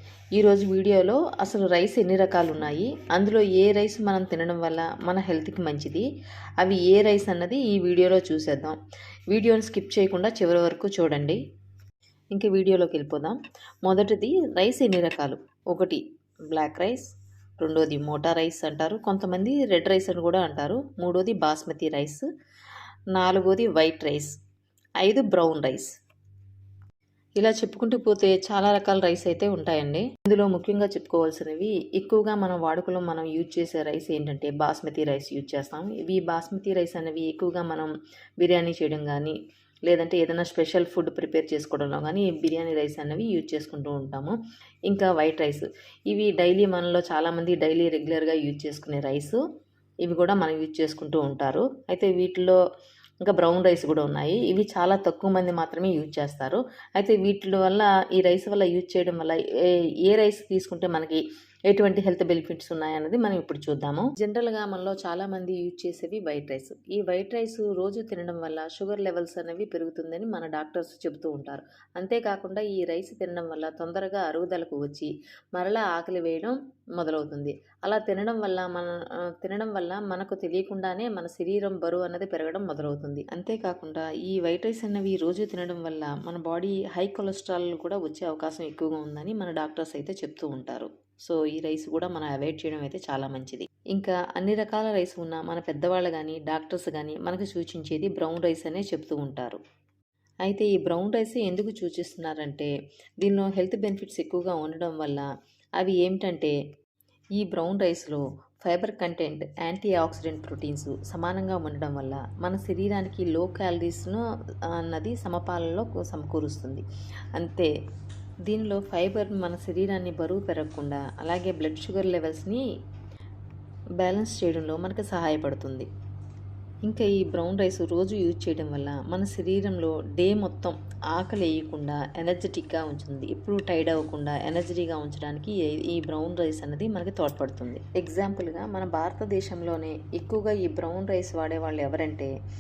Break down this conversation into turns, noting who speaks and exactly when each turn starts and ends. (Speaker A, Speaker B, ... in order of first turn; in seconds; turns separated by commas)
Speaker A: 0.4-6.1, Speaker A: 6.6-8.8, Speaker A: 9.3-11.4, Speaker A: 12.3-22.3, Speaker A: 23.1-24.3, Speaker A: 25.0-25.9, Speaker A: 27.4-39.4, Speaker A: 39.9-49.4, Speaker A: 50.0-52.6, Speaker A: 53.2-59.4, Speaker A: 60.1-99.6, Speaker A: 100.5-102.7, Speaker A: 103.2-105.3, Speaker A: 105.8-106.5, Speaker A: 107.4-116.8, Speaker A: 117.4-117.7, Speaker A: 118.5-122.6, Speaker A: 124.0-125.9, Speaker A: 126.8-142.3